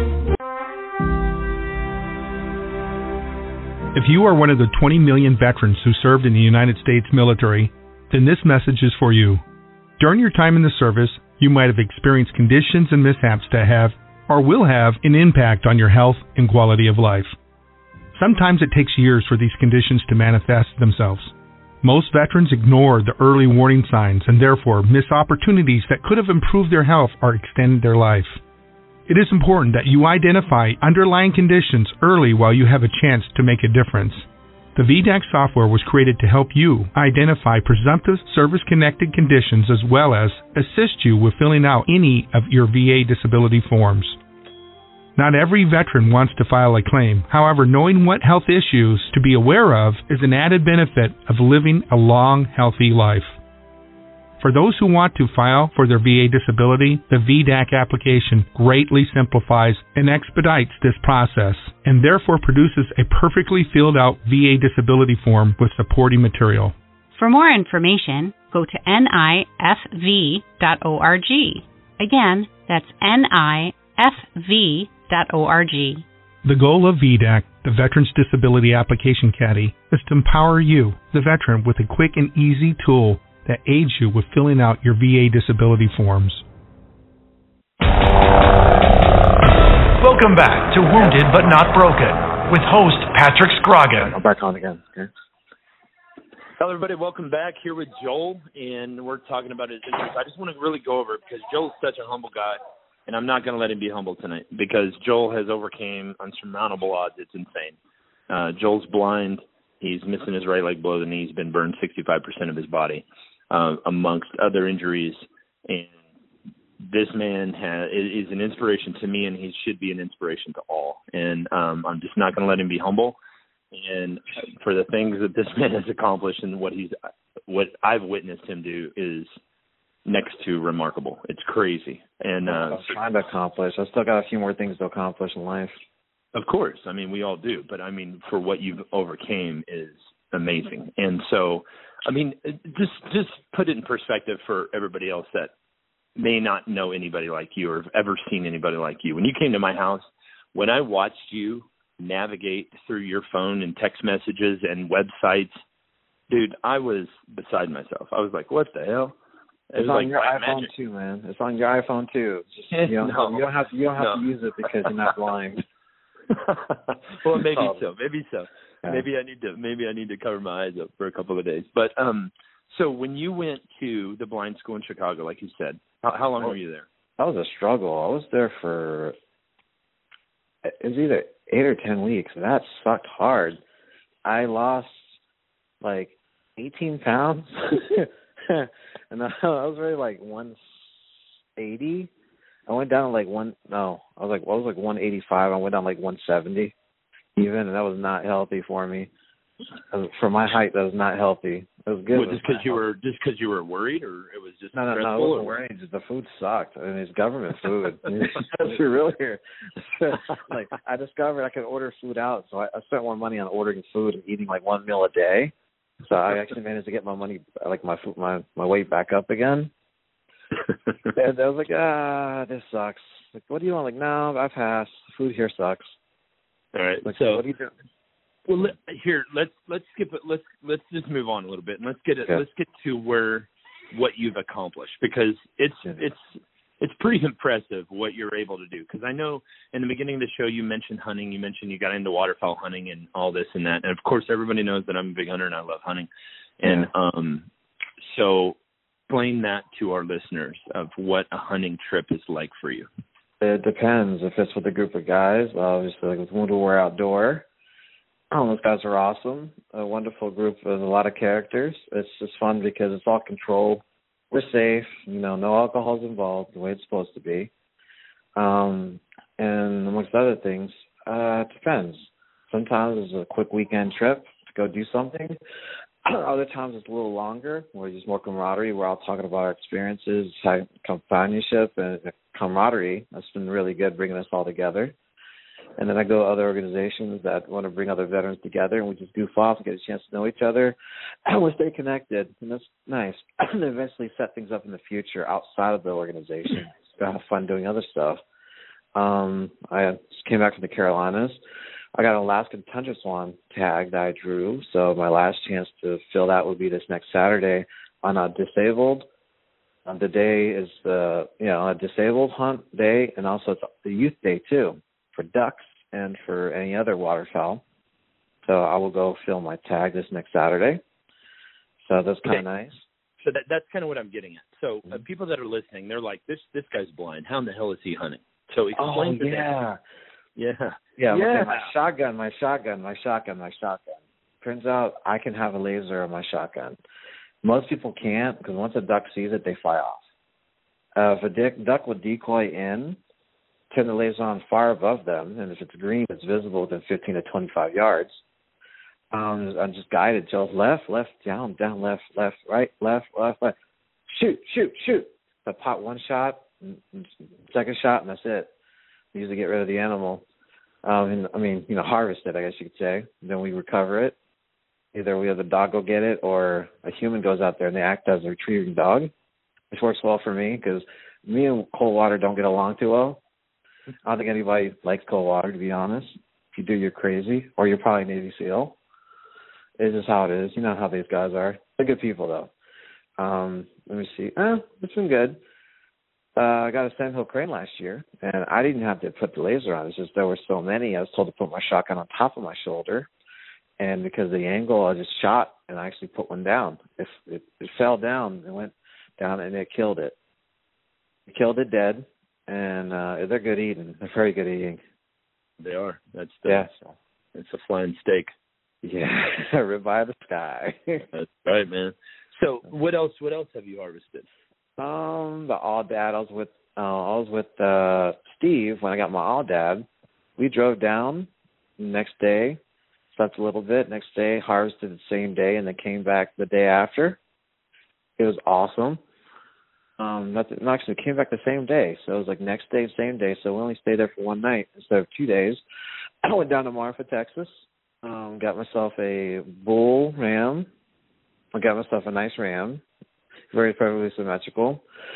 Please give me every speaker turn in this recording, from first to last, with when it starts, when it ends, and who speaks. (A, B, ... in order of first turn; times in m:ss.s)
0:03.9-0:09.4 A
0:10.0-0:17.4 A
0:18.2-0:28.4 A
0:29.1-0:44.2 A
0:45.2-0:53.4 A
0:54.4-1:06.8 A
1:07.1-1:16.1 B
1:16.4-1:26.4 A
1:30.0-1:34.2 C
1:34.1-1:35.1 D
1:36.6-1:47.8 E
1:48.3-1:55.9 E
1:56.8-2:03.2 E
2:03.7-2:07.0 E
2:07.5-2:09.3 E
2:10.1-2:13.0 E
2:12.4-2:15.7 D
2:16.3-2:25.5 E
2:26.2-2:35.6 E
2:36.3-2:39.2 E
2:39.7-2:40.7 E
2:39.8-2:45.6 D
2:42.7-2:43.5 E
2:44.0-2:44.2 E
2:46.3-2:56.8 E
2:47.4-2:47.8 D
2:57.2-2:59.2 D
3:00.6-3:03.6 D
3:04.2-3:05.2 D
3:05.8-3:12.1 D
3:12.7-3:16.7 D
3:17.4-3:19.1 D
3:19.9-3:22.8 D
3:22.1-3:25.5 E
3:24.7-3:39.7 D
3:41.1-3:46.0 D
3:46.7-3:47.4 E
3:47.0-3:47.7 D
3:48.5-3:56.2 E
3:56.8-4:06.1 E
4:06.6-4:07.5 E
4:08.0-4:08.6 E
4:09.1-4:12.9 E
4:13.4-4:17.5 D
4:18.3-4:27.5 D
4:28.4-4:35.4 D
4:36.0-4:45.0 D
4:45.8-4:58.2 D
4:59.0-5:01.4 D
5:02.0-5:09.1 D
5:09.8-5:17.6 D
5:18.4-5:20.8 D
5:21.8-5:22.9 D
5:23.2-5:29.5 E
5:28.8-5:29.8 D
5:30.4-5:31.7 E
5:31.0-5:36.8 D
5:37.4-5:40.1 D
5:41.0-5:43.0 D
5:43.7-5:48.2 D
5:49.1-5:53.5 D
5:54.1-5:58.5 D
5:59.1-6:00.2 D
6:00.8-6:04.2 D
6:04.9-6:09.1 D
6:09.7-6:13.2 D
6:14.0-6:18.8 D
6:19.8-6:22.5 D
6:23.2-6:25.4 D
6:26.4-6:33.1 D
6:33.8-6:40.2 D
6:41.3-6:44.8 D
6:45.6-6:46.7 E
6:46.5-6:46.7 D
6:47.4-6:48.3 E
6:48.8-6:51.1 D
6:51.1-6:54.3 E
6:54.8-6:59.9 D
7:00.4-7:02.6 D
7:03.1-7:07.2 D
7:08.2-7:09.0 D
7:10.0-7:15.6 D
7:16.2-7:20.7 D
7:21.5-7:22.8 D
7:23.5-7:24.8 D